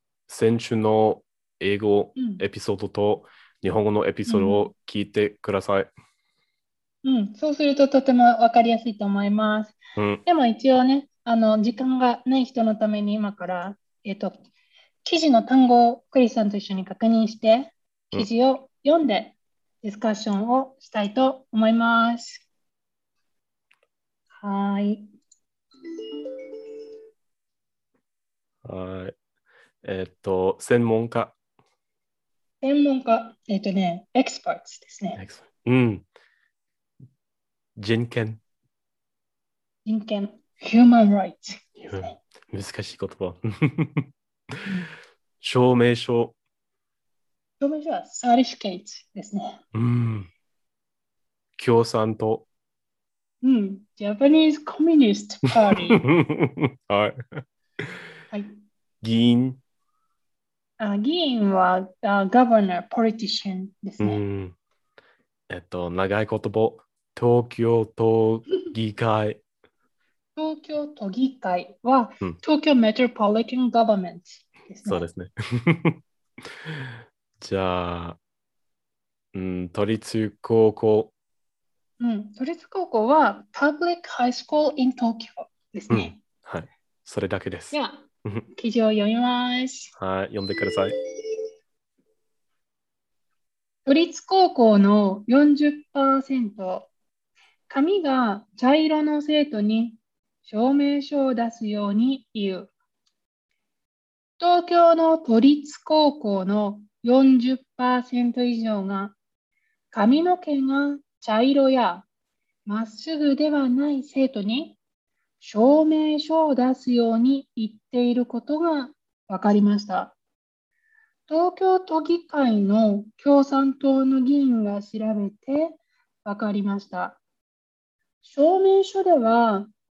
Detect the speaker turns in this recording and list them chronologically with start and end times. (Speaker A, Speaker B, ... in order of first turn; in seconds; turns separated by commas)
Speaker A: 0.3-5.9, Speaker B: 2.2-2.5, Speaker B: 4.3-4.7, Speaker B: 7.0-14.4, Speaker A: 10.0-10.2, Speaker B: 15.1-22.4, Speaker B: 24.3-25.1, Speaker A: 28.6-29.1, Speaker A: 29.8-31.4, Speaker B: 32.6-35.2, Speaker A: 35.2-36.0, Speaker A: 37.8-38.4, Speaker B: 39.9-42.2, Speaker A: 41.8-44.1, Speaker B: 44.6-44.9, Speaker A: 45.4-46.4, Speaker B: 47.6-49.6, Speaker A: 49.7-50.3, Speaker A: 51.6-52.5, Speaker B: 53.4-56.0, Speaker A: 56.0-58.0, Speaker A: 59.0-59.6, Speaker B: 60.8-64.2, Speaker A: 64.0-64.5, Speaker A: 65.5-69.4, Speaker B: 70.4-75.0, Speaker A: 74.9-78.2, Speaker A: 79.3-81.1, Speaker B: 82.0-86.2, Speaker A: 85.9-88.4, Speaker B: 87.7-89.9, Speaker A: 90.0-90.9, Speaker B: 93.9-96.9, Speaker B: 97.7-102.7, Speaker B: 104.4-109.2, Speaker B: 109.9-112.1, Speaker B: 112.7-114.8, Speaker B: 115.4-120.2, Speaker B: 121.3-127.2, Speaker B: 128.2-129.7